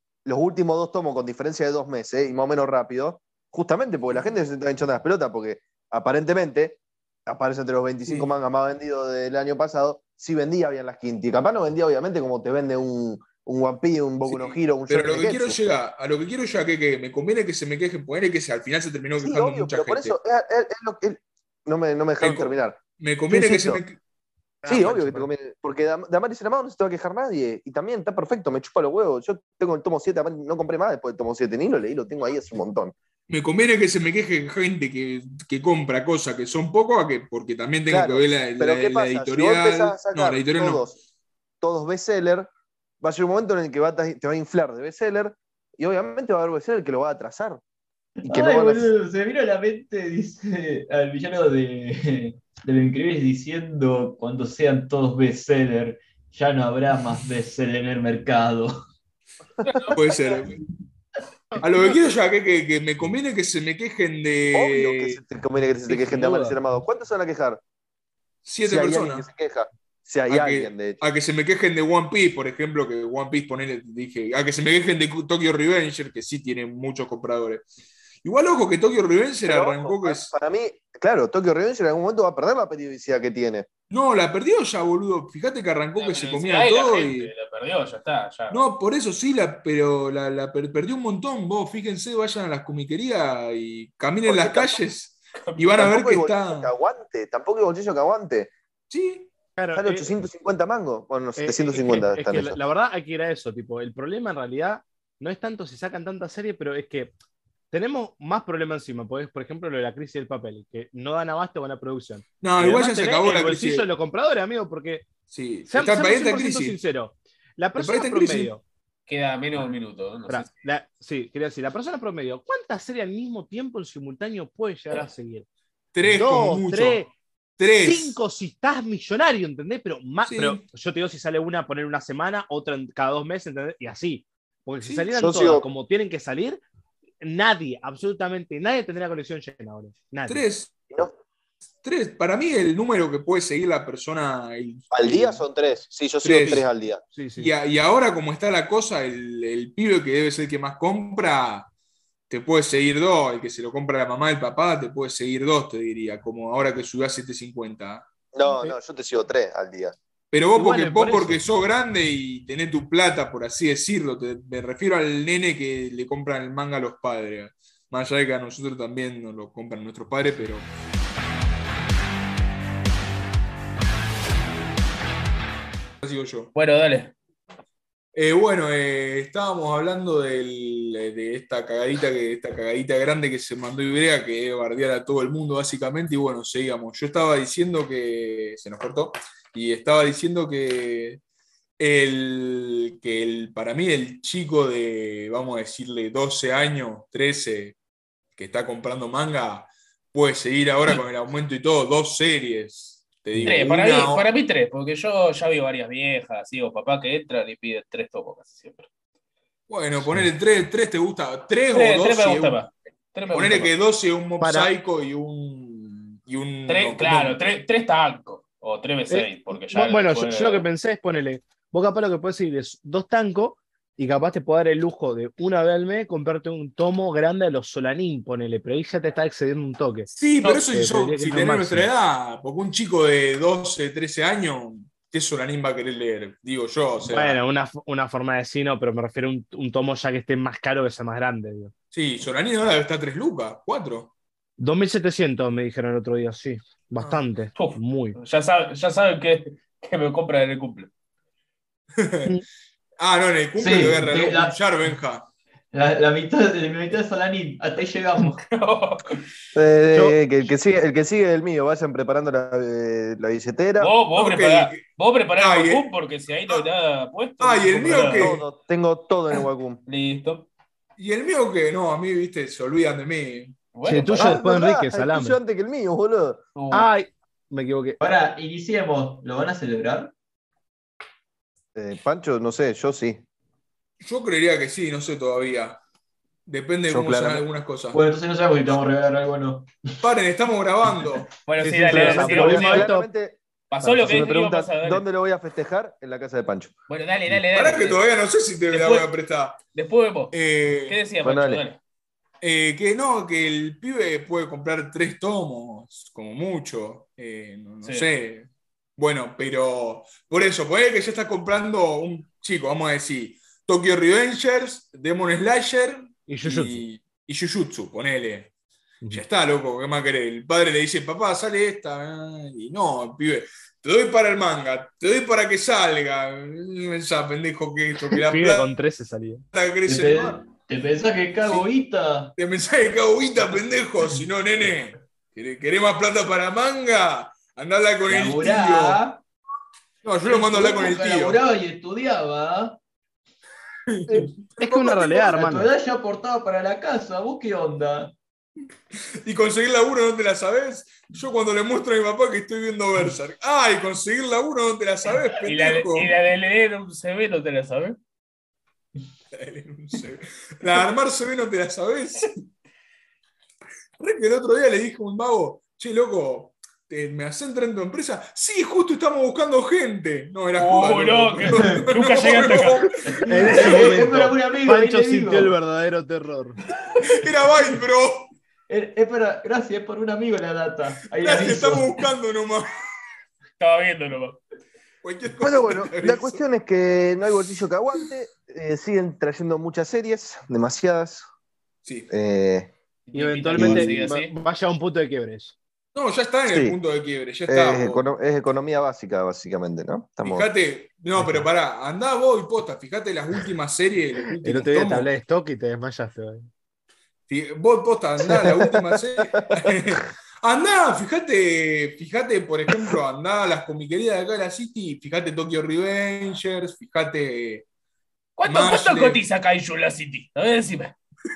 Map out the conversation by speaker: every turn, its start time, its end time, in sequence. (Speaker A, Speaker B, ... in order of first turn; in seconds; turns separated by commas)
Speaker A: 0.2-15.6, Speaker B: 14.2-20.1, Speaker A: 19.2-23.8, Speaker B: 22.2-24.0, Speaker C: 24.6-25.3, Speaker A: 24.6-32.9, Speaker B: 33.3-40.9, Speaker A: 37.9-41.0, Speaker A: 41.6-42.5, Speaker A: 43.0-47.6, Speaker D: 48.2-58.7, Speaker A: 48.3-48.9, Speaker E: 59.6-60.1, Speaker B: 59.9-60.6, Speaker C: 61.5-62.0, Speaker B: 61.6-65.2, Speaker A: 64.5-67.6, Speaker C: 65.9-66.6, Speaker B: 68.4-69.2, Speaker A: 68.6-71.0, Speaker B: 70.3-77.7, Speaker B: 78.2-80.3, Speaker A: 79.4-83.7, Speaker B: 83.9-87.3, Speaker E: 86.0-88.6, Speaker B: 88.5-96.7, Speaker A: 94.2-94.8, Speaker E: 95.5-95.8, Speaker A: 95.8-98.5, Speaker B: 98.9-99.3, Speaker C: 99.6-100.1, Speaker A: 99.7-102.6, Speaker C: 101.4-107.1, Speaker C: 107.7-115.1, Speaker B: 112.4-113.9, Speaker B: 115.3-116.8, Speaker C: 115.7-118.6, Speaker B: 117.8-118.5, Speaker E: 119.1-120.5, Speaker C: 120.3-125.5, Speaker B: 125.9-127.0, Speaker C: 126.0-127.1, Speaker B: 127.6-128.2, Speaker C: 127.8-136.6, Speaker B: 130.2-130.6, Speaker B: 134.8-135.1, Speaker A: 135.1-135.7, Speaker C: 137.2-140.4, Speaker B: 140.3-140.7, Speaker B: 141.8-145.4, Speaker A: 144.9-147.0, Speaker B: 146.2-146.7, Speaker C: 147.1-147.5, Speaker B: 147.4-151.7, Speaker B: 152.3-158.1, Speaker A: 158.3-159.9, Speaker C: 158.4-158.8, Speaker B: 160.3-170.7, Speaker C: 160.5-161.4, Speaker B: 176.0-176.5, Speaker E: 176.5-177.1, Speaker B: 178.1-191.2, Speaker B: 191.8-197.8, Speaker B: 198.3-204.2, Speaker C: 203.3-203.6, Speaker E: 203.4-208.9, Speaker B: 209.7-212.6, Speaker E: 211.7-213.7, Speaker B: 213.3-217.4, Speaker C: 214.4-214.7, Speaker E: 216.7-220.7, Speaker C: 219.1-231.9, Speaker B: 230.1-237.4, Speaker C: 237.1-241.7, Speaker B: 241.9-244.1, Speaker C: 244.6-248.2, Speaker E: 247.5-250.9, Speaker B: 251.9-252.3, Speaker B: 253.0-255.3, Speaker D: 253.6-254.6, Speaker D: 255.7-258.4, Speaker E: 258.4-259.2, Speaker A: 259.5-263.9, Speaker C: 259.9-260.2, Speaker E: 263.8-268.4, Speaker B: 264.1-264.8, Speaker B: 265.4-265.9, Speaker B: 267.4-268.4, Speaker A: 267.9-269.8, Speaker E: 269.9-270.5, Speaker B: 271.0-273.6, Speaker E: 273.7-274.4, Speaker C: 273.9-275.4, Speaker A: 274.1-276.4, Speaker E: 276.6-276.9, Speaker C: 276.7-278.0, Speaker D: 278.0-280.1, Speaker A: 281.7-283.2, Speaker B: 284.0-285.8, Speaker B: 286.4-288.0, Speaker A: 286.9-287.4, Speaker D: 287.9-289.7, Speaker B: 290.0-291.3, Speaker E: 291.4-292.9, Speaker C: 291.6-293.1, Speaker A: 291.9-296.7, Speaker E: 293.7-295.0, Speaker C: 293.9-294.2, Speaker E: 296.9-298.0, Speaker B: 297.3-299.6, Speaker E: 298.7-299.1, Speaker E: 299.7-300.3, Speaker B: 300.3-301.0, Speaker E: 300.9-301.8, Speaker A: 301.2-301.6, Speaker B: 302.4-318.5, Speaker C: 316.3-316.8, Speaker B: 319.1-328.7, Speaker C: 328.1-329.4, Speaker B: 329.5-330.4, Speaker D: 329.9-332.3, Speaker B: 332.4-339.0, Speaker D: 338.1-339.2, Speaker B: 340.0-341.4, Speaker D: 340.2-342.8, Speaker B: 343.9-345.2, Speaker C: 344.1-345.7, Speaker D: 345.1-348.1, Speaker B: 349.2-356.1, Speaker E: 355.4-358.0, Speaker B: 359.3-362.4, Speaker B: 364.0-373.9, Speaker E: 370.5-372.8, Speaker D: 371.6-371.8, Speaker D: 373.1-375.6, Speaker C: 373.3-376.6, Speaker B: 377.0-378.3, Speaker D: 378.7-382.0, Speaker B: 381.2-382.7, Speaker E: 383.6-384.4, Speaker B: 385.0-386.4, Speaker A: 385.4-391.3, Speaker B: 391.8-392.1, Speaker A: 392.1-392.7, Speaker E: 393.1-394.3, Speaker C: 393.1-395.5, Speaker A: 393.5-393.9, Speaker B: 395.9-398.1, Speaker A: 396.5-396.8, Speaker A: 397.5-400.5, Speaker B: 400.2-405.1, Speaker C: 401.2-401.5, Speaker C: 404.4-406.5, Speaker B: 407.3-417.7, Speaker A: 408.3-409.7, Speaker E: 418.4-420.9, Speaker B: 418.4-419.2